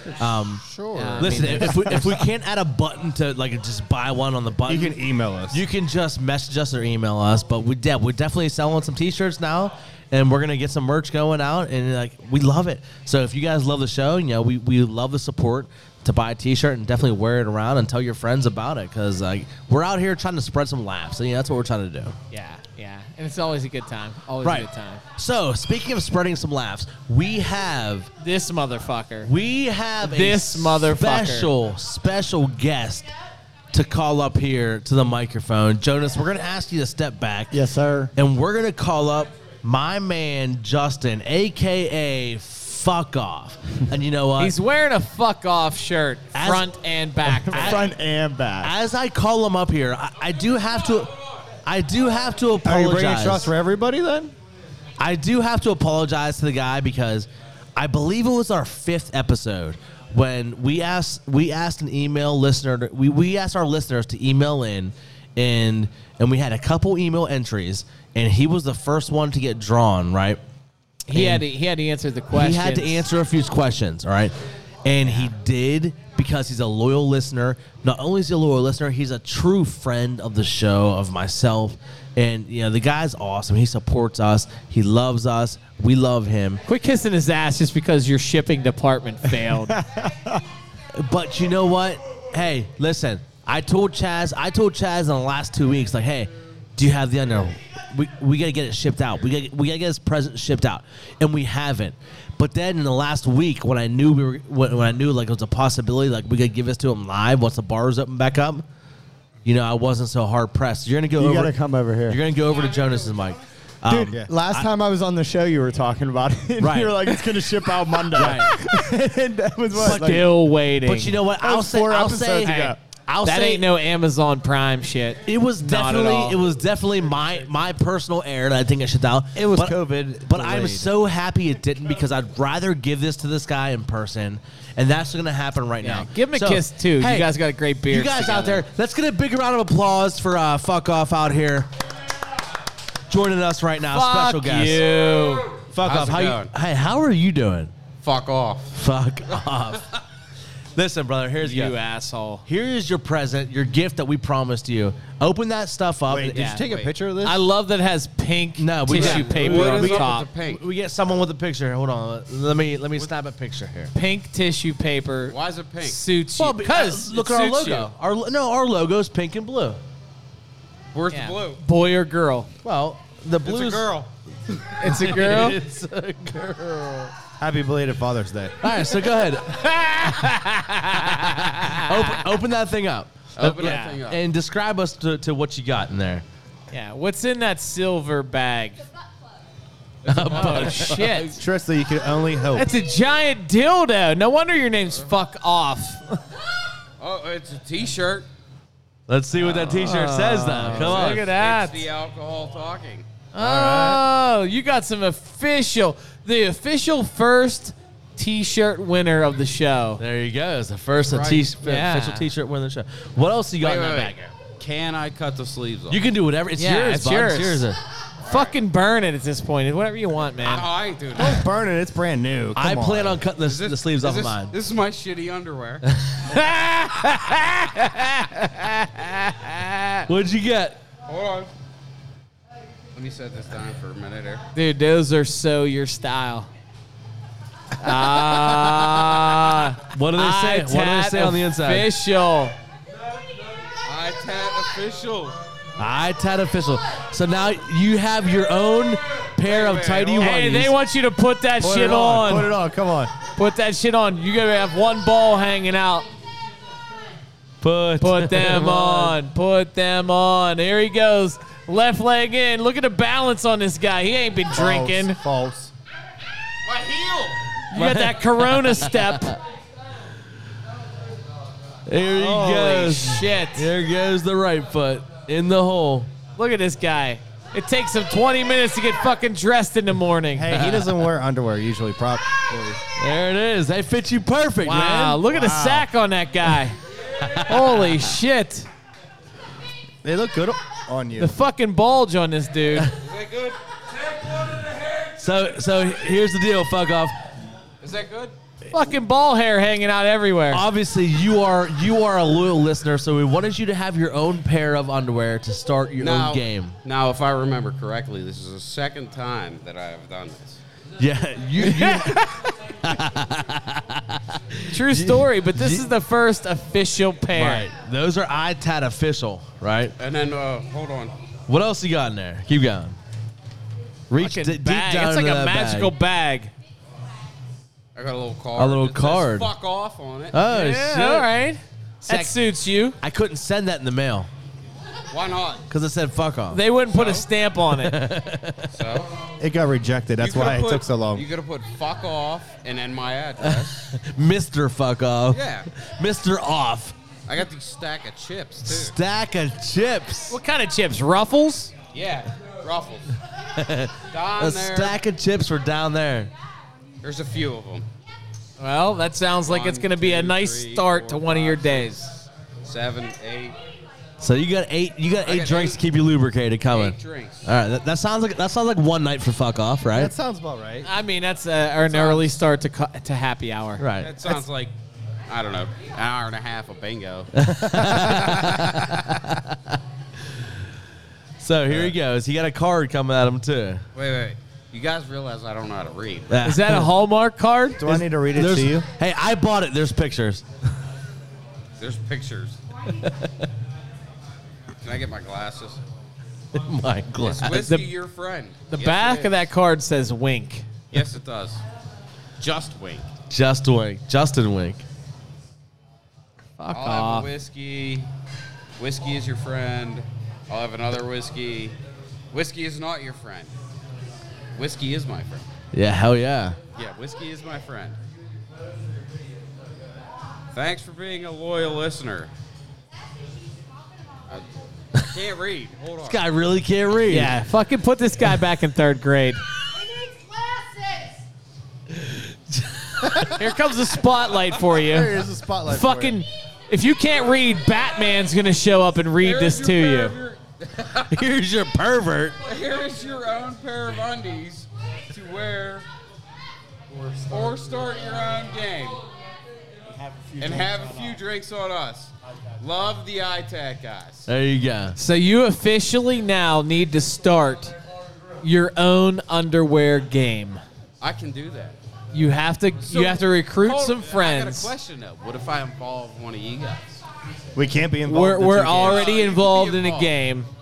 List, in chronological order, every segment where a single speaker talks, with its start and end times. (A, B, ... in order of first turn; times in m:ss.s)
0:00.2-0:00.6 A
0:00.7-0:01.7 B
0:01.0-0:01.9 C
0:01.2-0:22.2 A
0:04.7-0:05.6 B
0:22.3-0:25.0 C
0:24.4-0:28.1 A
0:28.2-0:29.3 C
0:29.3-0:33.1 A
0:30.0-0:31.5 C
0:33.7-0:37.6 A
0:37.5-0:38.1 D
0:38.2-0:44.6 A
0:44.4-0:47.8 C
0:46.3-0:46.7 A
0:47.4-0:47.9 A
0:47.5-0:48.7 D
0:48.6-0:51.1 A
0:51.7-0:53.5 A
0:52.6-0:54.3 B
0:55.0-1:10.4 A
1:11.1-1:13.0 C
1:11.1-1:11.4 A
1:12.3-1:14.3 A
1:14.8-1:26.6 A
1:26.7-1:29.8 C
1:29.7-1:30.4 D
1:31.0-1:48.6 A
1:49.4-1:51.5 A
1:51.2-1:52.2 D
1:52.1-1:54.7 A
1:53.9-2:00.3 D
1:56.6-1:57.2 A
1:58.1-1:58.5 A
1:59.8-2:03.7 A
1:59.8-2:01.2 C
2:01.4-2:02.8 D
2:02.4-2:06.4 C
2:05.3-2:17.3 A
2:09.4-2:10.8 B
2:15.8-2:18.6 C
2:17.9-2:21.7 A
2:23.1-2:24.9 A
2:23.9-2:25.5 C
2:25.7-2:27.7 A
2:25.8-2:26.5 E
2:28.0-2:28.8 E
2:28.7-2:30.0 A
2:30.8-2:31.8 A
2:31.4-2:32.4 C
2:32.5-2:36.6 A
2:36.1-2:37.5 B
2:36.3-2:36.6 C
2:36.6-2:36.9 E
2:37.2-2:40.3 C
2:38.6-2:43.9 A
2:38.9-2:40.6 E
2:43.9-2:47.9 C
2:45.3-2:46.0 E
2:46.4-2:49.8 A
2:50.9-2:51.6 E
2:51.1-2:52.5 C
2:52.6-2:54.0 A
2:53.4-2:54.8 E
2:54.8-2:55.6 C
2:54.8-2:57.1 A
2:57.4-2:58.6 B
2:58.6-3:06.2 A
2:59.5-3:02.2 C
3:03.4-3:04.2 E
3:03.6-3:04.0 C
3:06.7-3:08.8 C
3:10.1-3:11.3 A
3:10.1-3:10.7 E
3:10.2-3:11.4 C
3:11.4-3:12.7 B
3:12.6-3:16.2 C
3:17.0-3:18.3 E
3:19.1-3:21.3 A
3:19.5-3:21.8 C
3:20.7-3:23.1 E
3:23.3-3:30.0 C
3:23.4-3:24.0 B
3:30.0-3:34.3 A
3:31.0-3:31.5 E
3:31.6-3:32.2 C
3:33.6-3:36.0 E
3:35.9-3:37.8 A
3:36.6-3:37.7 C
3:38.2-3:40.7 C
3:40.4-3:41.5 E
3:41.2-3:43.2 B
3:42.6-3:44.5 A
3:43.4-3:45.9 E
3:45.9-3:46.2 A
3:46.3-3:50.1 C
3:50.1-3:50.8 A
3:51.1-3:51.5 E
3:52.9-3:54.4 E
3:54.5-3:56.5 C
3:57.8-4:02.6 C
3:58.6-3:58.8 A
3:59.9-4:01.9 A
4:03.8-4:05.4 E
4:05.8-4:10.8 A
4:09.4-4:10.4 E
4:10.2-4:12.5 C
4:11.6-4:13.1 B
4:13.4-4:16.1 C
4:17.6-4:19.1 A
4:18.0-4:25.2 C
4:24.5-4:25.7 B
4:26.6-4:27.4 E
4:27.7-4:29.4 C
4:27.7-4:29.4 A
4:31.9-4:36.1 A
4:32.2-4:33.7 C
4:36.4-4:40.6 C
4:40.4-4:42.8 B
4:40.5-4:40.9 A
4:43.0-4:45.2 A
4:44.6-4:46.8 C
4:45.3-4:45.9 B
4:47.2-4:47.8 A
4:47.5-4:48.7 C
4:50.0-4:51.4 B
4:51.2-4:52.9 C
4:52.9-4:53.6 E
4:55.2-4:57.2 A
4:57.8-4:58.4 E
4:58.7-5:00.6 C
5:00.5-5:06.8 A
5:06.0-5:10.6 E
5:11.0-5:15.9 A
5:11.6-5:12.3 C
5:14.7-5:17.7 C
5:17.3-5:19.9 A
5:20.0-5:21.1 E
5:21.5-5:23.0 A
5:24.1-5:25.9 A
5:24.2-5:26.5 C
5:28.0-5:30.4 E
5:28.6-5:29.5 A
5:30.3-5:31.3 A
5:30.5-5:33.0 C
5:32.1-5:32.4 A
5:33.0-5:34.3 A
5:35.1-5:35.6 E
5:35.7-5:36.6 A
5:36.5-5:38.0 C
5:36.8-5:37.3 E
5:37.8-5:38.7 A
5:38.7-5:39.1 E
5:39.4-5:41.3 B
5:40.2-5:43.9 E
5:43.4-5:47.0 A
5:45.3-5:45.7 E
5:47.3-5:49.0 E
5:48.6-5:50.4 A
5:50.3-5:51.7 C
5:51.9-5:53.1 E
5:53.6-5:56.3 A
5:54.1-5:55.0 E
5:57.0-5:57.9 E
5:58.6-6:02.2 C
5:59.4-6:02.0 E
6:02.6-6:03.6 E
6:04.2-6:10.1 A
6:05.2-6:05.8 E
6:06.7-6:07.4 E
6:09.9-6:10.9 B
6:10.8-6:13.8 C
6:11.9-6:12.4 E
6:13.8-6:14.4 A
6:14.0-6:14.7 E
6:15.3-6:17.3 E
6:17.3-6:19.8 A
6:17.7-6:18.4 B
6:21.4-6:23.8 A
6:21.7-6:21.9 B
6:24.0-6:26.4 E
6:26.3-6:26.9 A
6:26.4-6:27.8 C
6:27.8-6:28.8 B
6:27.8-6:30.4 A
6:31.8-6:32.6 E
6:33.0-6:33.4 A
6:34.8-6:35.8 E
6:36.5-6:37.7 A
6:37.2-6:39.4 E
6:37.5-6:37.9 C
6:38.7-6:40.7 C
6:40.9-6:41.6 E
6:42.4-6:43.1 E
6:43.3-6:44.8 A
6:46.6-6:47.3 C
6:46.7-6:48.1 E
6:48.8-6:51.8 E
6:52.3-6:53.5 E
6:54.5-6:55.5 E
6:55.7-6:56.6 A
6:56.8-6:58.0 E
7:00.5-7:02.3 E
7:05.0-7:06.2 E
7:06.1-7:07.3 A
7:07.1-7:09.4 C
7:11.9-7:13.3 A
7:13.3-7:15.1 C
7:14.8-7:16.2 B
7:15.7-7:20.2 C
7:19.2-7:21.2 E
7:21.1-7:22.4 A
7:22.4-7:25.9 E
7:27.3-7:29.0 E
7:30.4-7:34.3 E
7:34.3-7:35.0 A
7:35.0-7:37.8 C
7:38.4-7:40.6 C
7:41.0-7:41.8 E
7:42.1-7:44.7 C
7:42.8-7:47.0 E
7:47.6-7:49.1 B
7:48.1-7:50.5 C
7:48.8-7:50.1 E